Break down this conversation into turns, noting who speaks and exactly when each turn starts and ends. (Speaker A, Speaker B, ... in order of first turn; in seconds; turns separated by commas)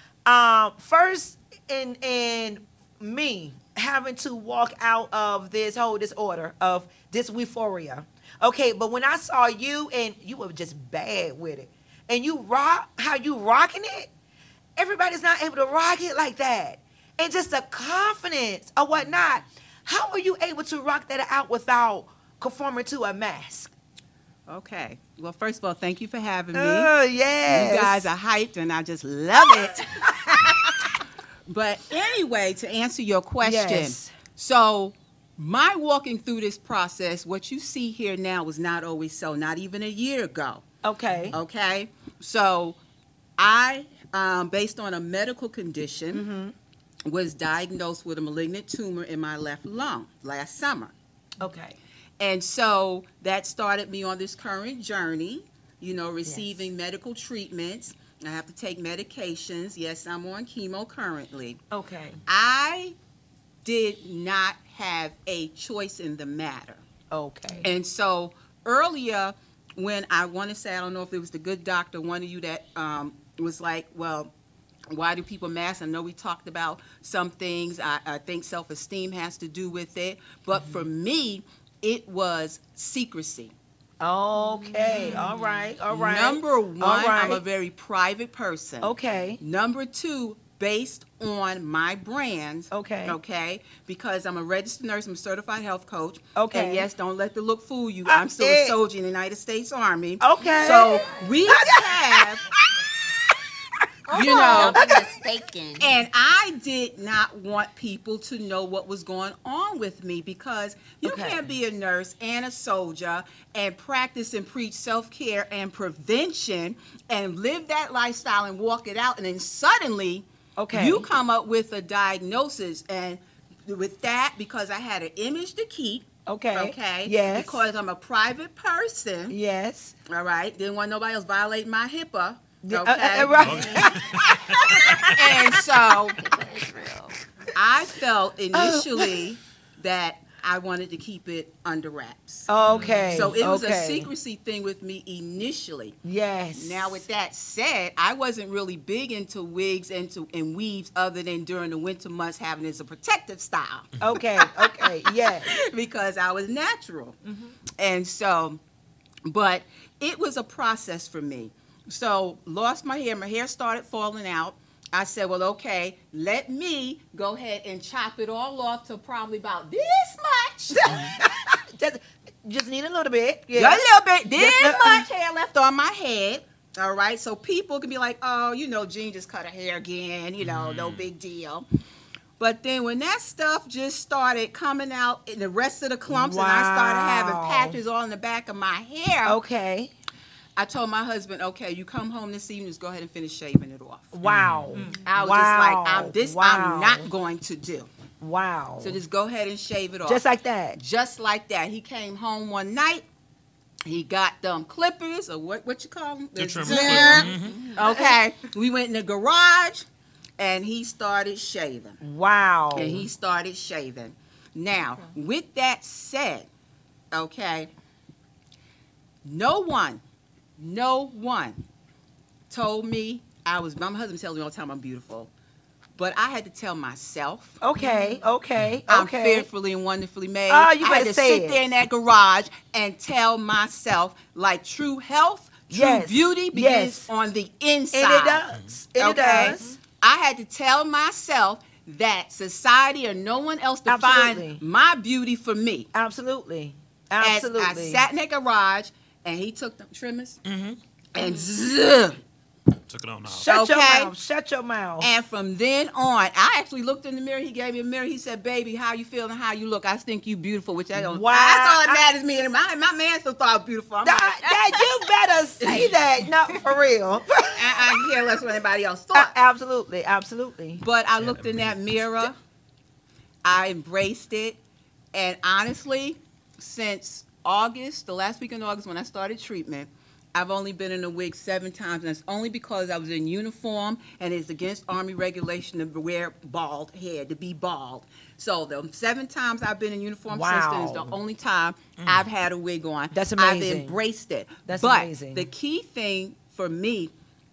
Speaker A: 0.3-14.1, Speaker A: 14.8-23.7, Speaker B: 24.5-26.9, Speaker A: 26.5-28.1, Speaker B: 27.5-30.8, Speaker B: 31.5-40.7, Speaker A: 33.4-34.1, Speaker A: 40.8-41.4, Speaker B: 41.3-42.8, Speaker B: 43.4-46.2, Speaker A: 46.1-46.5, Speaker B: 47.1-50.9, Speaker A: 51.4-51.8, Speaker B: 52.2-61.6, Speaker A: 56.2-56.7, Speaker A: 61.7-62.2, Speaker B: 62.3-63.0, Speaker B: 63.6-66.8, Speaker A: 67.1-67.7, Speaker B: 67.6-74.3, Speaker B: 74.9-83.5, Speaker A: 80.5-80.8, Speaker A: 84.0-87.4, Speaker C: 84.4-85.6, Speaker B: 84.9-85.3, Speaker B: 85.9-102.5, Speaker A: 88.8-89.4, Speaker A: 92.7-93.2, Speaker A: 96.4-96.9, Speaker A: 98.1-98.8, Speaker A: 100.2-102.3, Speaker A: 104.1-105.0, Speaker B: 104.1-104.9, Speaker C: 104.1-105.9, Speaker B: 105.8-129.3, Speaker A: 111.0-111.4, Speaker A: 120.6-121.1, Speaker A: 126.3-127.7, Speaker A: 129.3-130.0, Speaker B: 130.1-134.0, Speaker A: 132.6-135.6, Speaker D: 133.4-135.2, Speaker B: 134.7-136.3, Speaker C: 136.2-137.2, Speaker B: 137.6-142.5, Speaker A: 138.5-139.3, Speaker A: 142.5-144.1, Speaker D: 142.7-143.3, Speaker B: 143.1-146.0, Speaker A: 146.0-147.1, Speaker B: 146.6-157.2, Speaker A: 154.0-155.6, Speaker B: 157.8-158.6, Speaker B: 159.2-171.1, Speaker A: 170.8-175.1, Speaker B: 173.5-181.7, Speaker D: 180.4-181.1, Speaker B: 182.4-189.4, Speaker A: 186.1-187.8, Speaker A: 189.2-189.9, Speaker B: 190.6-194.1, Speaker A: 194.1-197.1, Speaker D: 194.2-194.9, Speaker B: 194.9-197.9, Speaker A: 198.2-199.0, Speaker B: 198.8-200.2, Speaker A: 200.1-200.8, Speaker B: 200.8-203.1, Speaker B: 203.9-209.9, Speaker D: 206.4-207.7, Speaker C: 206.7-207.8, Speaker A: 206.9-207.2, Speaker A: 207.8-208.2, Speaker B: 210.4-212.0, Speaker A: 212.0-213.1, Speaker B: 212.7-216.5, Speaker B: 217.1-217.7, Speaker B: 219.2-220.0, Speaker B: 220.6-221.6, Speaker B: 222.5-225.3, Speaker B: 226.0-227.6, Speaker A: 227.6-229.5, Speaker B: 228.9-238.4, Speaker A: 230.5-231.6, Speaker A: 235.7-237.1, Speaker A: 237.9-239.8, Speaker D: 238.5-238.8, Speaker B: 239.0-245.9, Speaker A: 243.9-244.6, Speaker A: 245.9-248.1, Speaker B: 247.2-250.4, Speaker D: 250.4-250.8, Speaker B: 251.2-252.2, Speaker D: 252.9-253.5, Speaker A: 253.3-255.1, Speaker B: 253.5-254.1, Speaker B: 255.0-264.9, Speaker A: 260.9-262.1, Speaker A: 264.0-268.1, Speaker B: 265.6-265.9, Speaker B: 267.5-269.4, Speaker A: 269.1-270.8, Speaker B: 270.8-272.4, Speaker D: 271.2-271.8, Speaker B: 273.4-274.6, Speaker B: 275.1-297.1, Speaker A: 290.3-291.2, Speaker D: 292.0-292.3, Speaker A: 293.1-294.0, Speaker A: 294.7-295.5